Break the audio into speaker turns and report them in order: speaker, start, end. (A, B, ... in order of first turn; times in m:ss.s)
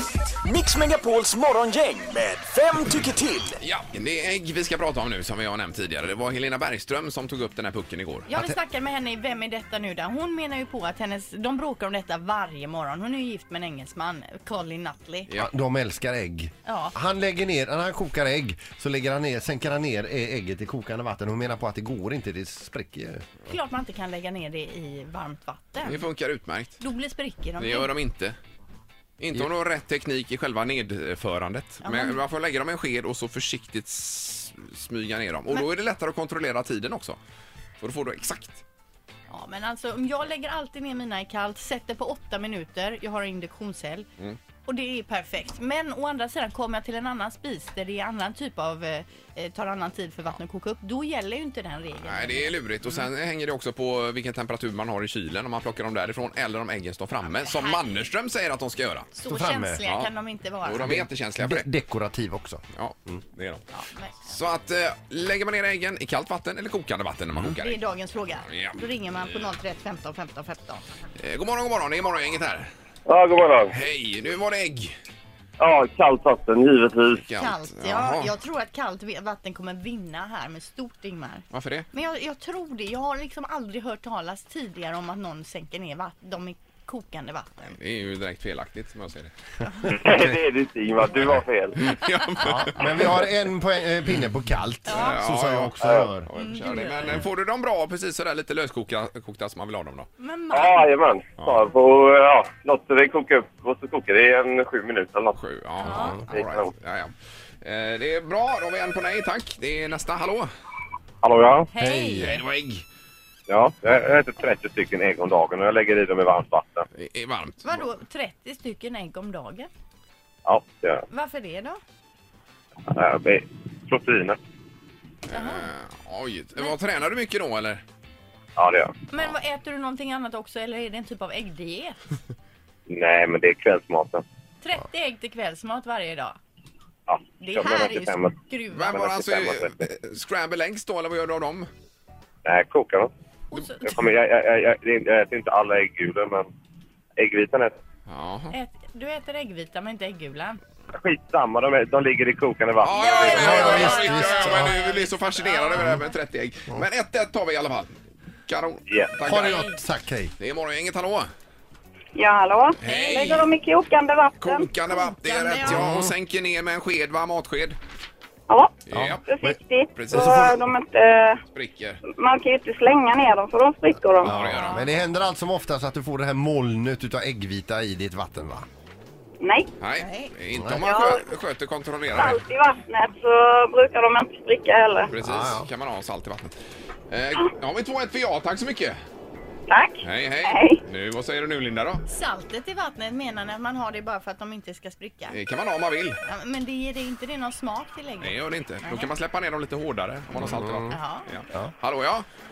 0:00.4-0:03.5 A
0:03.6-0:08.3 B
0:08.3-0:15.3 C
0:08.3-0:08.6 D
0:15.4-0:23.3 D
0:16.6-0:17.0 C
0:23.4-0:26.0 C
0:25.8-0:26.8 B
0:26.8-0:27.9 C
0:27.6-0:28.4 B
0:29.2-0:37.2 B
0:31.8-0:32.2 C
0:37.8-0:38.6 B
0:39.3-0:44.1 C
0:44.6-0:52.6 C
0:52.0-0:59.1 B
0:57.2-0:58.1 C
0:59.1-1:01.0 C
0:59.3-0:59.8 D
1:00.6-1:01.7 B
1:00.8-1:03.2 D
1:02.7-1:03.6 B
1:03.7-1:04.3 C
1:04.2-1:07.8 B
1:07.6-1:10.9 C
1:08.5-1:08.8 B
1:11.2-1:12.7 B
1:13.1-1:13.7 E
1:13.7-1:14.9 B
1:15.6-1:17.2 E
1:17.1-1:18.3 B
1:17.4-1:27.7 C
1:21.5-1:21.9 B
1:27.7-1:29.3 B
1:29.9-1:31.8 E
1:31.2-1:33.2 B
1:32.4-1:36.3 D
1:34.9-1:35.2 C
1:34.9-1:40.1 B
1:35.8-1:36.1 E
1:36.3-1:37.3 C
1:40.2-1:40.9 C
1:40.5-1:45.4 E
1:45.4-1:50.5 B
1:45.8-1:46.2 C
1:46.3-1:46.7 E
1:51.2-1:51.7 E
1:51.7-1:52.4 C
1:51.8-1:52.3 D
1:52.2-1:52.8 B
1:53.5-1:56.8 E
1:57.0-1:57.8 B
1:57.6-1:59.7 C
2:00.4-2:01.0 E
2:01.1-2:01.8 C
2:02.9-2:04.4 E
2:05.3-2:05.7 C
2:05.3-2:07.8 B
2:08.6-2:09.0 E
2:09.1-2:12.0 C
2:12.9-2:14.2 E
2:14.6-2:16.4 C
2:17.1-2:18.4 E
2:17.4-2:18.9 C
2:18.7-2:21.7 B
2:18.9-2:19.8 E
2:22.4-2:23.1 E
2:23.5-2:24.0 C
2:23.8-2:26.5 E
2:27.2-2:27.8 E
2:28.1-2:28.5 B
2:28.5-2:30.6 C
2:30.9-2:34.0 E
2:32.8-2:37.9 B
2:33.0-2:36.1 C
2:33.3-2:34.8 D
2:38.5-2:39.7 B
2:38.9-2:39.1 E
2:39.2-2:40.3 D
2:39.3-2:39.8 C
2:40.4-2:41.3 B
2:42.1-2:44.7 F
2:42.8-2:43.5 B
2:42.9-2:43.4 C
2:44.4-2:47.8 B
2:44.9-2:45.9 C
2:45.7-2:46.1 D
2:48.5-2:51.4 F
2:48.8-2:49.2 B
2:48.9-2:49.6 D
2:49.9-2:50.6 B
2:51.5-2:52.0 B
2:52.1-2:54.3 F
2:54.2-2:54.9 B
2:54.2-2:58.7 D
2:54.5-2:54.8 C
2:59.4-2:59.7 F
2:59.8-3:02.4 B
3:00.0-3:00.3 C
3:00.6-3:00.8 D
3:00.8-3:01.2 F
3:02.2-3:05.1 F
3:05.1-3:06.6 B
3:05.2-3:05.7 D
3:07.1-3:09.0 B
3:09.7-3:10.8 F
3:10.0-3:12.0 B
3:12.1-3:15.4 C
3:15.3-3:16.2 B
3:16.2-3:19.1 C
3:18.2-3:22.2 B
3:20.4-3:20.8 D
3:20.9-3:21.3 C